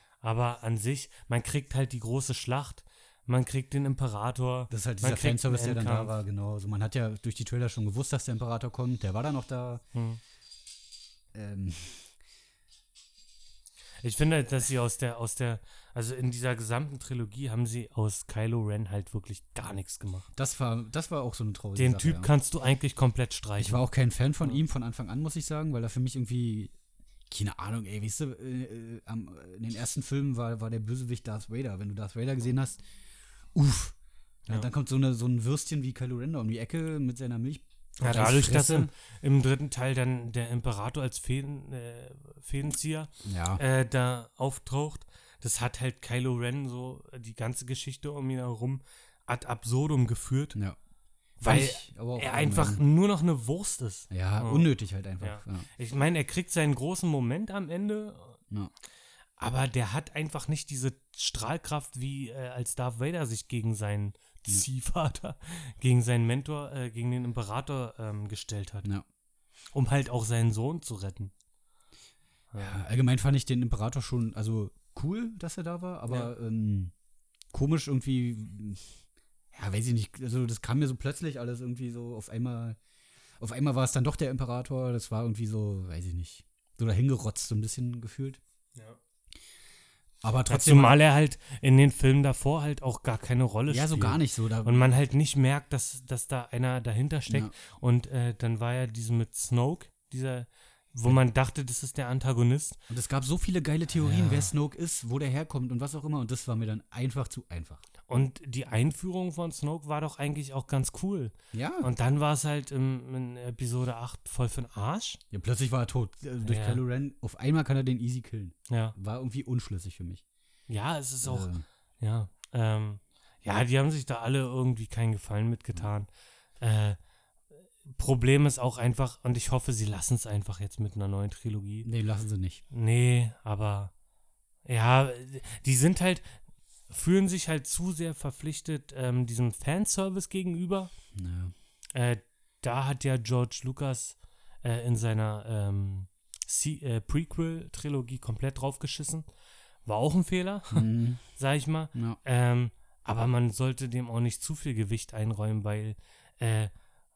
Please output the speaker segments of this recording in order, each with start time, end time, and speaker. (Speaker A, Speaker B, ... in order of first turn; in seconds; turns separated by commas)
Speaker A: 0.2-6.1, Speaker B: 4.7-9.8, Speaker A: 9.9-10.2, Speaker B: 11.3-12.1, Speaker A: 14.0-20.3, Speaker B: 20.3-22.3, Speaker A: 21.8-23.9, Speaker B: 23.6-26.7, Speaker B: 27.3-32.8, Speaker B: 33.5-34.0, Speaker B: 34.5-38.9, Speaker A: 38.0-50.5, Speaker B: 43.2-43.6, Speaker A: 51.4-54.7, Speaker B: 51.4-52.8, Speaker B: 54.1-55.7, Speaker A: 55.2-58.4, Speaker A: 59.4-68.9, Speaker A: 69.7-71.3, Speaker A: 72.5-72.8, Speaker B: 72.6-76.9, Speaker B: 77.5-78.9, Speaker B: 79.5-82.8, Speaker B: 83.4-88.4, Speaker B: 90.2-91.0, Speaker A: 90.5-102.8, Speaker B: 93.7-94.9, Speaker B: 102.9-107.8, Speaker A: 103.9-104.5, Speaker A: 108.1-115.2, Speaker B: 111.5-111.9, Speaker B: 115.3-120.2, Speaker A: 116.4-116.8, Speaker A: 118.7-118.9, Speaker A: 120.7-126.1, Speaker B: 121.2-121.6, Speaker A: 126.6-127.0, Speaker A: 127.9-131.9, Speaker B: 131.8-132.6, Speaker A: 132.7-133.9, Speaker A: 134.6-136.3, Speaker A: 136.9-140.9, Speaker B: 141.2-141.5, Speaker A: 141.9-149.2, Speaker A: 149.8-156.7, Speaker B: 150.7-151.2, Speaker B: 151.9-152.2